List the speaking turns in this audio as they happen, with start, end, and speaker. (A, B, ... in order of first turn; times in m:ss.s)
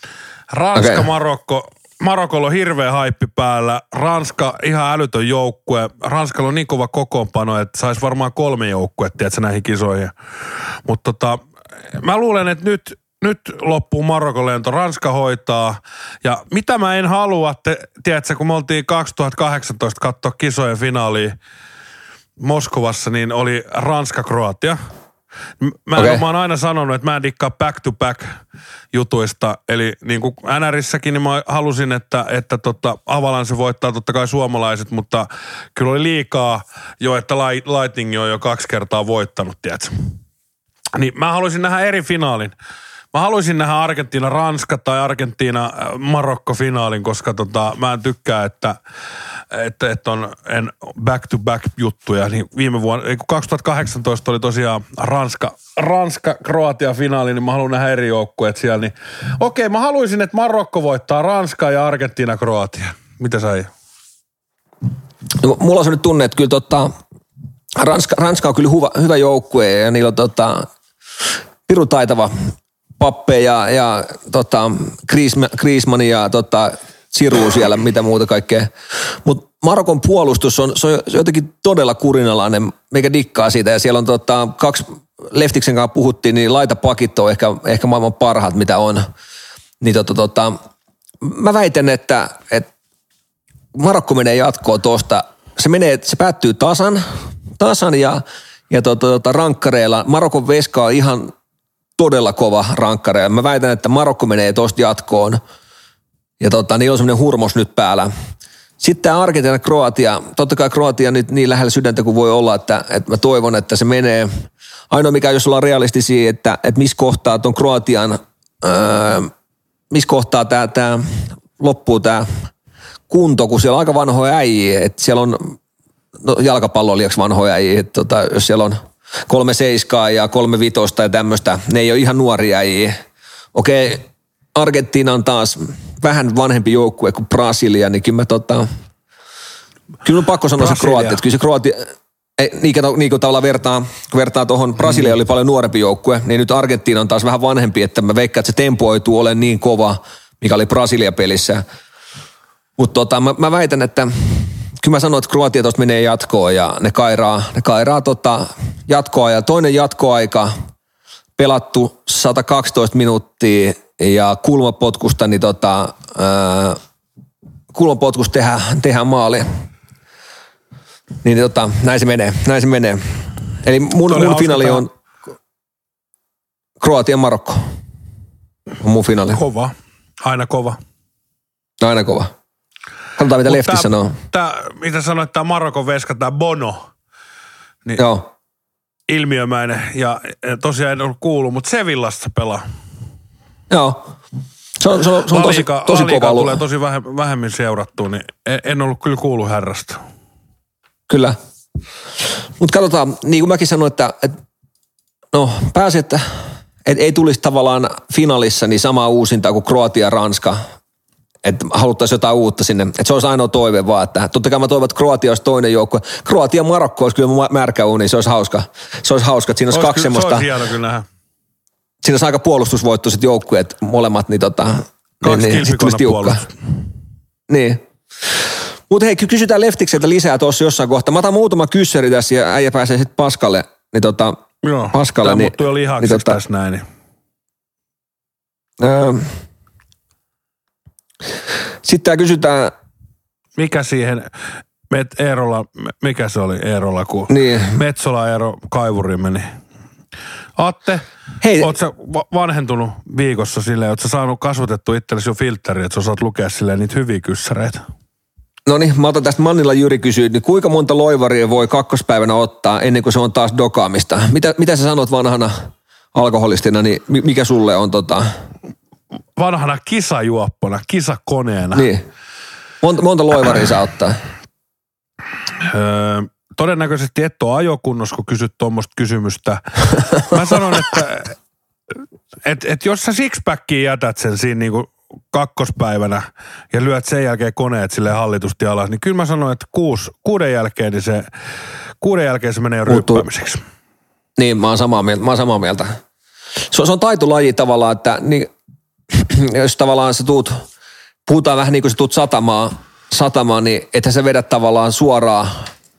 0:00.5-0:10.1 A
0:00.8-0:01.0 B
0:10.8-0:11.4 A
0:11.9-0:21.4 A
0:22.4-0:24.8 A
0:25.6-0:28.3 A
0:26.0-0:26.2 B
0:28.9-0:39.9 A
0:40.9-0:42.5 A
0:43.1-0:48.8 A
0:49.5-1:03.7 A
1:05.4-1:06.9 B
1:07.8-1:10.7 B
1:11.7-1:12.3 B
1:13.0-1:18.7 B
1:19.2-1:29.1 B
1:29.8-1:30.6 B
1:31.2-1:32.7 B
1:33.7-1:37.0 B
1:37.6-1:41.3 B
1:42.0-1:45.4 B
1:46.4-1:48.1 B
1:48.8-1:54.3 B
1:54.9-1:59.3 B
1:59.9-2:02.3 B
2:03.1-2:05.6 B
2:06.2-2:13.0 B
2:13.5-2:18.6 B
2:20.0-2:31.6 B
2:20.6-2:21.2 A
2:32.8-2:40.5 B
2:41.4-2:46.8 B
2:47.7-2:49.5 B
2:51.2-2:53.0 B
2:53.6-2:54.9 B
2:54.1-2:54.8 A
2:56.8-2:57.6 B
2:58.8-2:59.4 B
2:59.3-3:00.8 A
3:01.8-3:02.3 B
3:03.2-3:04.1 B
3:03.4-3:06.8 A
3:08.0-3:08.3 B
3:09.1-3:12.6 A
3:13.7-3:14.1 B
3:14.8-3:16.6 B
3:15.3-3:20.0 A
3:21.1-3:21.4 B
3:22.6-3:24.3 B
3:25.3-3:26.2 B
3:26.8-3:30.6 B
3:31.4-3:40.5 B
3:39.7-3:41.0 A
3:42.0-3:46.4 B
3:45.2-3:46.5 A
3:47.5-3:48.4 B
3:48.9-3:54.4 B
3:54.6-3:56.8 A
3:54.9-3:56.4 B
3:58.8-3:59.3 B
4:01.8-4:02.7 B
4:03.6-4:04.3 A
4:04.9-4:09.5 A
4:07.3-4:07.7 B
4:10.6-4:11.0 A
4:11.4-4:11.7 B
4:11.6-4:17.8 A
4:18.6-4:28.3 B
4:29.4-4:31.9 A
4:31.7-4:32.0 B
4:32.8-4:34.2 B
4:35.6-4:41.3 A
4:42.4-4:51.3 A
4:52.0-4:53.6 A
4:52.9-4:53.2 B
4:54.4-4:56.0 B
4:56.7-4:58.5 B
4:59.1-5:00.6 B
5:01.2-5:05.7 B